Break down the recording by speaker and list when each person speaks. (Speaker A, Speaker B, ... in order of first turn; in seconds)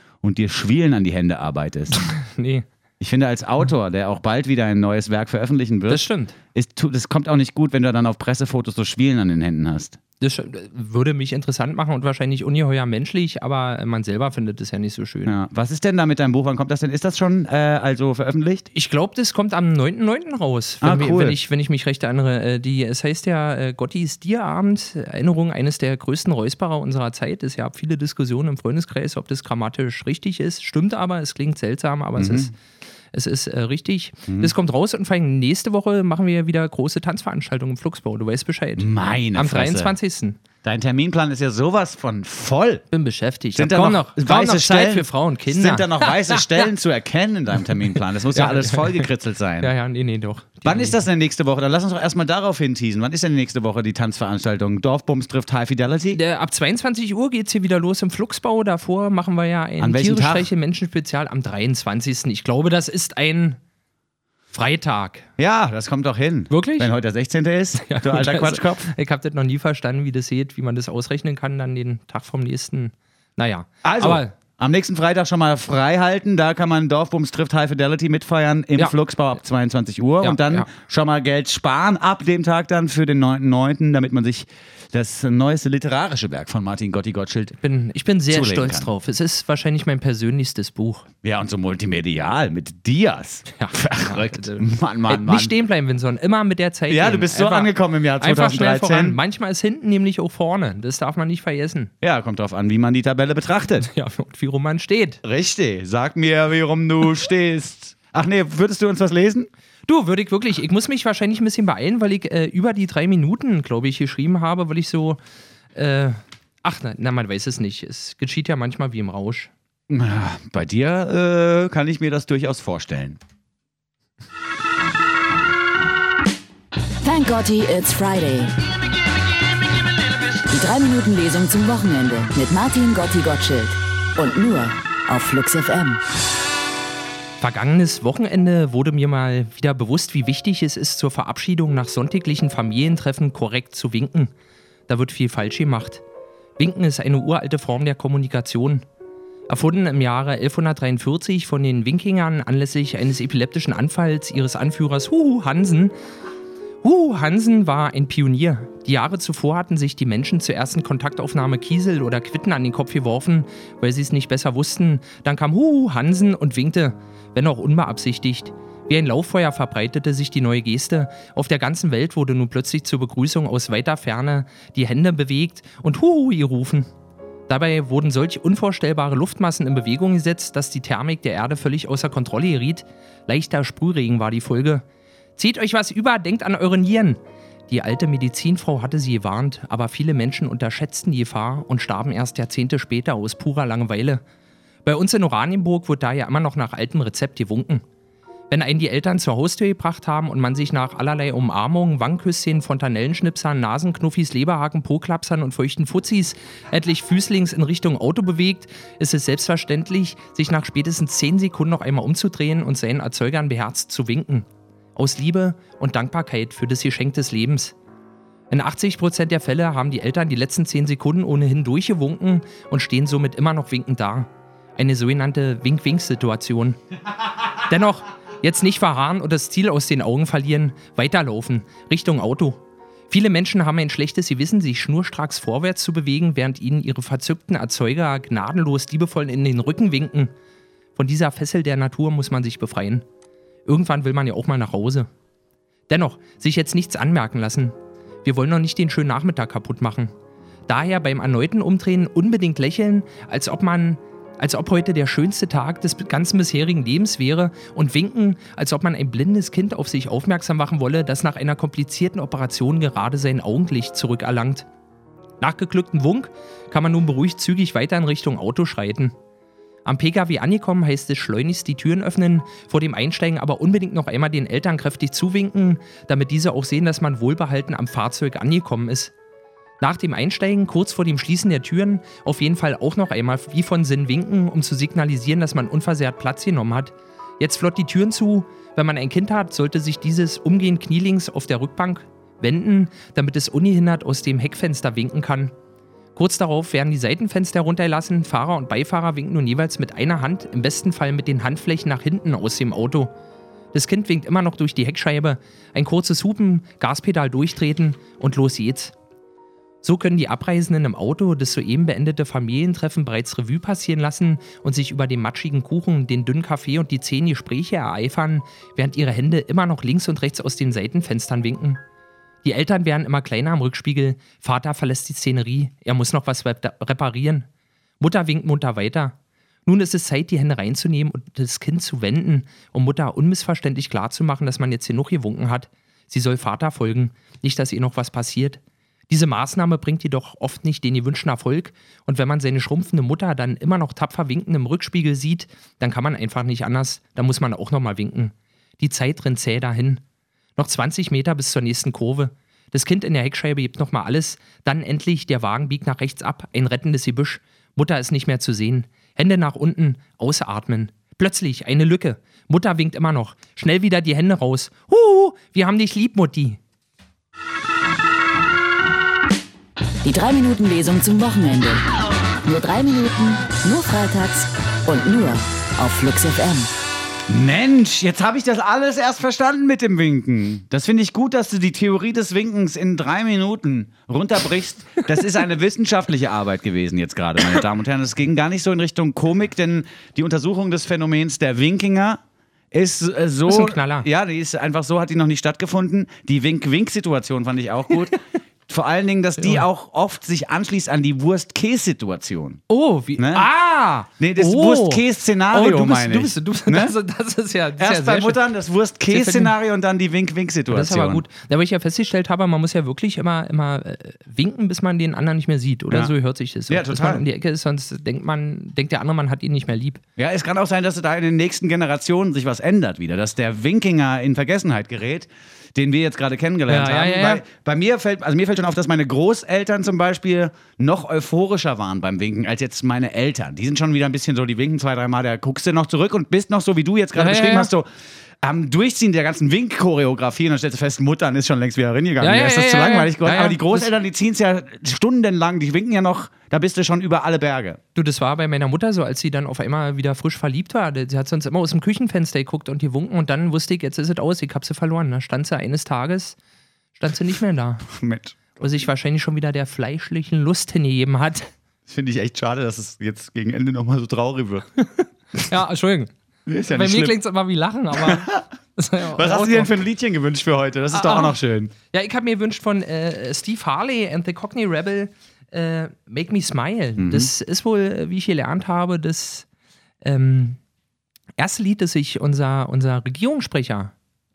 Speaker A: 0.2-2.1, 3.0-10.0, 15.3-18.7, 20.8-21.4, 32.2-32.5, 34.3-34.5, 38.8-40.0, 40.6-42.8, 43.5-49.7, 50.6-56.2, 59.8-60.5, 65.4-68.9, 73.8-87.6, 88.3-88.9, 91.2-95.5, 96.9-99.2, 102.0-103.9, 105.2-109.5, 119.9-123.2, 377.3-392.2, 392.7-398.2, 398.7-402.6, 403.2-403.5, 404.2-406.9, 407.8-411.2, 416.7-417.3, 420.2-437.9, 438.4-447.8, 457.9-458.7, 461.9-464.7, 466.5-467.2, 468.0-468.5, 469.1-471.7, 477.0-477.3
Speaker B: 1.9-2.7, 5.9-6.4, 10.2-15.4, 18.7-32.5, 33.1-40.4, 42.9-46.7, 47.6-49.1, 49.6-51.0, 56.1-63.6, 64.5-65.2, 66.5-66.9, 67.8-74.3, 80.2-80.7, 87.6-91.1, 93.5-101.9, 103.8-105.2, 109.9-115.2, 115.8-119.5, 137.4-144.3, 144.9-146.0, 146.6-148.8, 149.5-155.9, 156.8-176.9, 177.5-184.8, 185.4-194.2, 194.8-197.8, 198.5-217.8, 218.5-226.8, 227.5-232.6, 233.1-240.3, 241.0-243.1, 243.7-245.1, 245.9-250.1, 250.7-264.7, 265.4-269.1, 269.9-279.1, 279.8-295.5, 296.1-303.1, 303.7-308.9, 309.8-321.8, 322.4-327.5, 328.0-329.1, 329.7-350.0, 350.6-366.6, 393.5-394.1, 399.4-399.6, 402.7-408.4, 409.1-409.5, 410.7-420.0, 426.7-427.4, 437.1-437.7, 442.2-443.9, 447.9-456.4, 457.0-457.9, 458.6-461.5, 464.8-466.1, 466.7-469.7, 470.9-471.4, 471.9-479.5, 480.0-480.6, 481.4-483.9
Speaker C: 127.0-128.5, 130.5-136.0, 370.0-371.8, 372.4-376.7